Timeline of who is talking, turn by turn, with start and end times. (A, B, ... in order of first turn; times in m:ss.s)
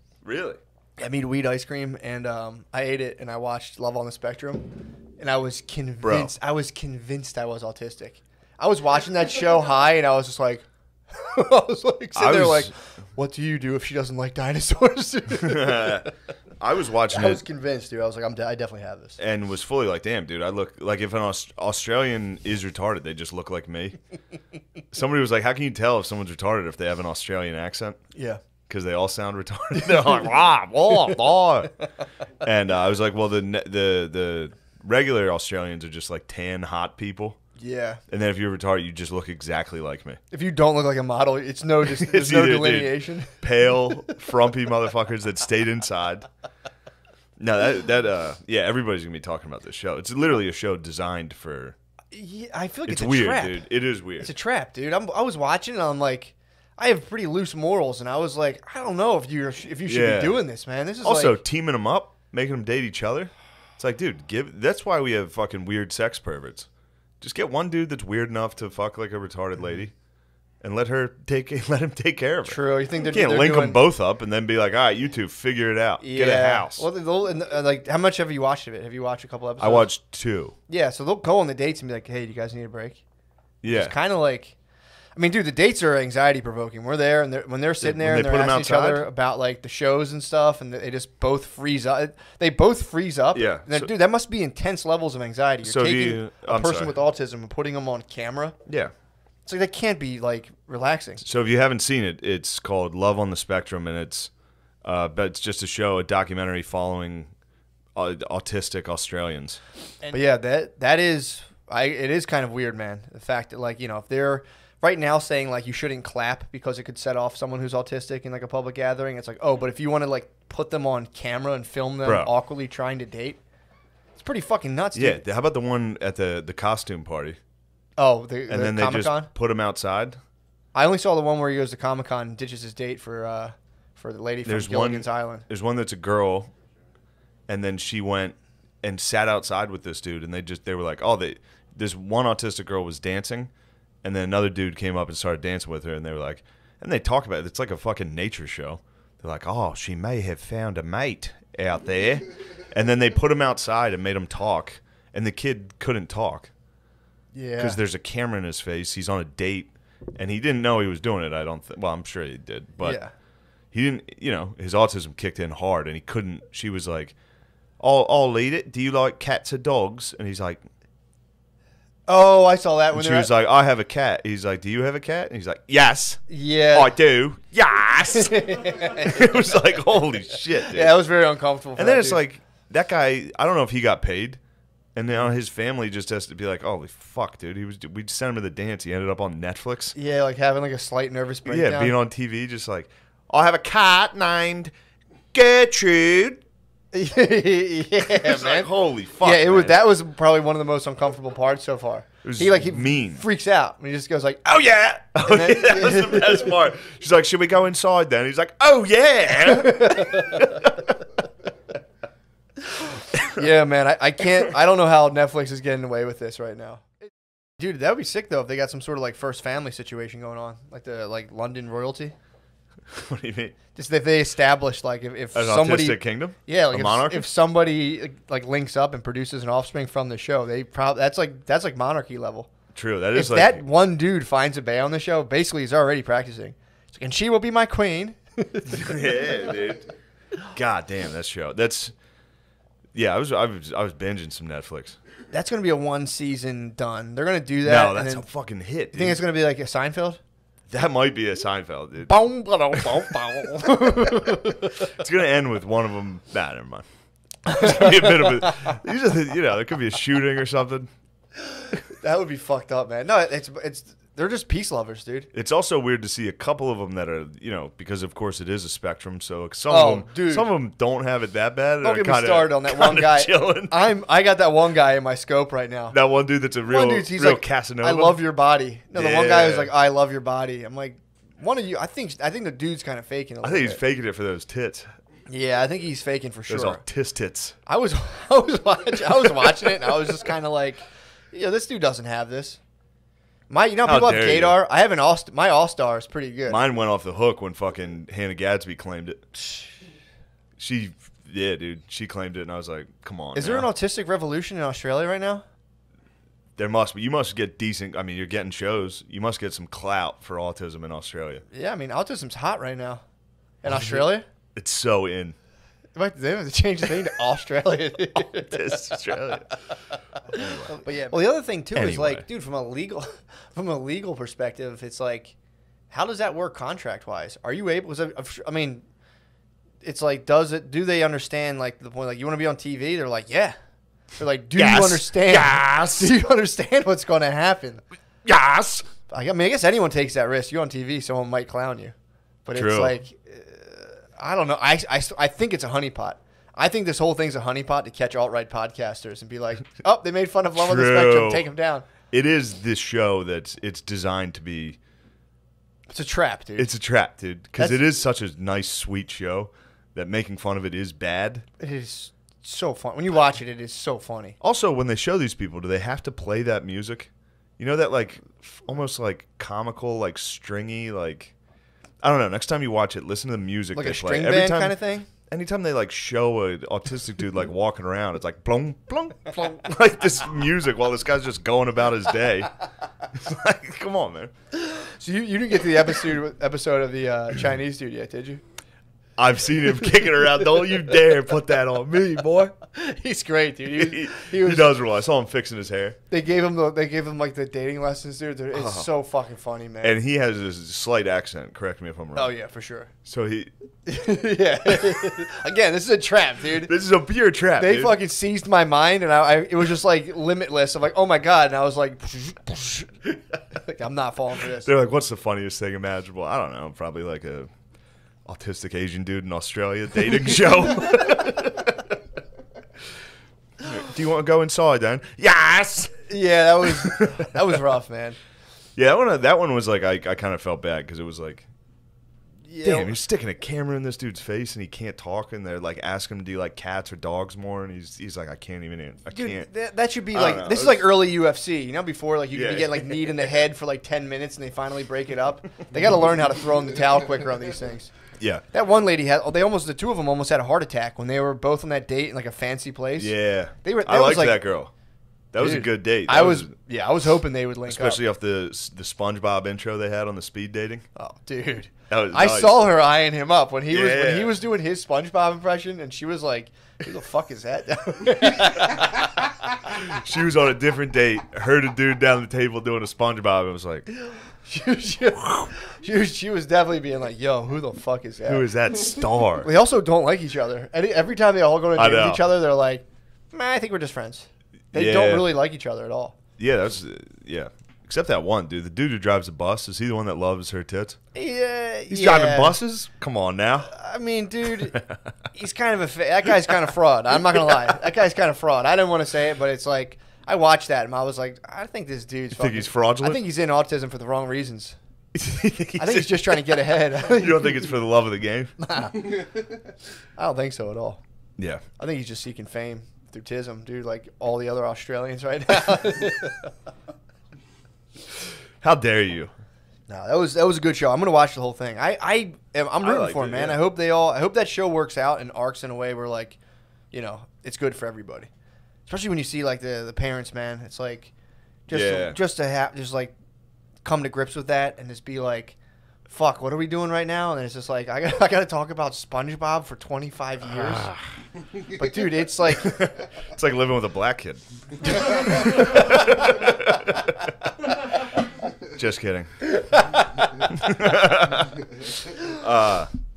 0:00.2-0:00.6 A
0:01.0-0:04.7 B
0:05.2-0:16.1 B
0:06.0-0:06.3 A
0:12.2-0:12.7 A
0:15.3-0:16.1 A
0:16.6-0:17.4 A
0:17.1-0:19.2 B
0:19.2-0:24.0 A
0:24.9-0:28.0 A
0:28.2-0:28.4 B
0:28.7-0:31.7 A
0:29.8-0:30.3 B
0:32.4-0:37.4 A
0:37.6-0:38.0 B
0:38.1-0:40.2 A
0:40.3-0:43.4 B
0:41.8-0:46.3 A
0:47.4-0:51.8 A
0:52.1-0:53.6 B
0:52.9-0:54.3 A
0:54.2-1:01.4 B
0:59.9-1:00.4 A
1:01.0-1:06.7 A
1:07.2-1:09.9 A
1:10.6-1:16.9 A
1:12.4-1:13.8 B
1:16.0-1:19.9 B
1:19.6-1:20.5 A
1:20.7-1:23.0 B
1:23.6-1:24.0 A
1:23.7-1:24.6 B
1:25.2-1:38.6 B
1:27.8-1:29.1 A
1:33.3-1:33.9 A
1:35.6-1:37.0 A
1:38.7-1:38.9 A
1:39.5-1:41.2 B
1:41.2-1:44.3 A
1:44.8-1:47.3 A
1:48.0-1:49.6 A
1:50.1-2:03.4 B
2:02.0-2:02.3 A
2:04.2-2:05.2 B
2:05.0-2:07.4 A
2:08.0-2:09.3 B
2:08.5-2:10.2 A
2:10.7-2:15.4 B
2:14.5-2:16.5 A
2:17.5-2:23.5 A
2:24.0-2:36.5 A
2:37.3-2:37.8 B
2:37.6-2:43.0 A
2:42.8-2:43.1 B
2:43.7-2:47.2 A
2:47.8-2:50.6 A
2:52.1-2:53.3 B
2:52.9-2:56.2 A
2:56.3-2:57.0 B
2:56.7-3:01.0 A
2:58.1-2:59.4 B
3:00.6-3:02.2 B
3:01.8-3:04.4 A
3:05.0-3:10.0 A
3:10.0-3:12.0 B
3:11.5-3:14.7 A
3:15.3-3:16.4 A
3:16.9-3:18.7 B
3:18.0-3:19.8 A
3:19.2-3:26.6 B
3:22.2-3:23.2 A
3:24.7-3:30.8 A
3:29.6-3:30.6 B
3:32.8-3:33.5 A
3:33.4-3:42.2 B
3:42.9-3:43.6 A
3:43.8-3:52.5 B
3:45.4-3:47.3 A
3:52.7-3:53.6 A
3:53.2-3:59.4 B
3:58.7-3:59.9 A
4:00.5-4:01.9 A
4:02.9-4:05.0 A
4:05.3-4:08.3 B
4:07.6-4:09.2 A
4:08.9-4:10.2 B
4:10.7-4:12.1 A
4:12.1-4:14.9 B
4:12.8-4:13.0 A
4:14.8-4:16.8 A
4:17.4-4:20.9 A
4:17.6-4:18.5 B
4:21.6-4:25.3 B
4:25.3-4:33.8 A
4:29.7-4:30.5 B
4:31.8-4:36.0 B
4:35.9-4:38.2 A
4:36.7-4:43.8 B
4:39.0-4:39.7 A
4:43.4-4:44.9 A
4:45.3-4:46.8 B
4:46.5-4:47.6 A
4:47.7-4:52.6 B
4:53.5-4:56.6 B
4:53.8-4:54.6 A
4:56.5-4:59.2 A
5:00.6-5:03.7 A
5:03.4-5:05.4 B
5:06.6-5:11.4 A
5:11.5-5:13.0 B
5:13.6-5:14.2 B
5:13.6-5:15.4 A
5:16.0-5:19.2 B
5:18.3-5:19.5 A
5:20.3-5:20.8 A
5:20.3-5:25.4 B
5:21.8-5:22.2 A
5:25.9-5:28.8 B
5:29.8-5:33.6 B
5:34.2-5:37.8 B
5:34.6-5:36.1 A
5:38.2-5:38.9 A
5:39.1-5:41.9 B
5:42.4-5:51.9 B
5:42.5-5:43.0 A
5:50.6-5:51.5 A
5:52.1-5:54.8 A
5:55.9-5:56.7 B
5:56.6-6:01.4 A
6:01.6-6:04.4 B
6:04.4-6:11.4 A
6:12.0-6:22.5 A
6:13.8-6:15.1 B
6:23.1-6:24.3 A
6:24.6-6:28.4 B
6:29.2-6:32.5 A
6:32.7-6:34.7 B
6:33.7-6:36.0 A
6:36.1-6:40.0 B
6:38.5-6:38.9 A
6:39.8-6:42.3 A
6:42.2-6:42.9 B
6:43.0-6:43.5 A
6:43.9-6:46.7 B
6:46.6-6:48.0 A
6:47.6-6:52.9 B
6:53.5-6:54.7 B
6:54.5-6:57.5 A
6:58.3-7:01.9 A
7:03.6-7:06.1 A
7:06.1-7:08.2 B
7:06.6-7:07.4 A
7:08.8-7:11.5 A
7:12.5-7:13.0 B
7:12.6-7:19.5 A
7:19.1-7:27.9 B
7:20.1-7:20.9 A
7:22.3-7:23.4 A
7:28.2-7:28.4 A
7:28.5-7:34.4 B
7:33.0-7:34.7 A
7:35.3-7:36.5 A
7:35.4-7:38.0 B
7:37.7-7:40.8 A
7:41.0-7:49.3 B
7:41.9-7:42.7 A
7:43.7-7:44.4 A
7:49.6-7:53.9 A
7:54.1-7:58.5 B
7:58.3-7:59.5 A
7:59.4-8:06.2 B
8:01.8-8:02.2 A
8:04.7-8:05.3 A
8:06.4-8:11.0 A
8:11.1-8:12.6 B
8:11.9-8:13.7 A
8:13.7-8:14.8 B
8:15.3-8:24.8 B
8:22.3-8:23.2 A
8:25.2-8:28.6 A
8:25.8-8:27.7 B
8:28.6-8:29.3 B
8:30.2-8:31.0 B
8:31.4-8:31.6 A
8:31.8-8:36.5 B
8:38.6-8:39.3 A
8:39.9-8:46.4 B
8:42.8-8:43.6 A
8:46.9-8:48.3 B
8:48.9-8:51.1 B
8:51.7-8:53.1 B
8:51.7-8:52.2 A
8:53.8-8:55.6 B
8:56.1-9:00.9 B
9:00.5-9:01.0 A
9:01.6-9:02.8 B
9:02.6-9:08.0 A
9:08.6-9:09.5 A
9:10.5-9:12.9 A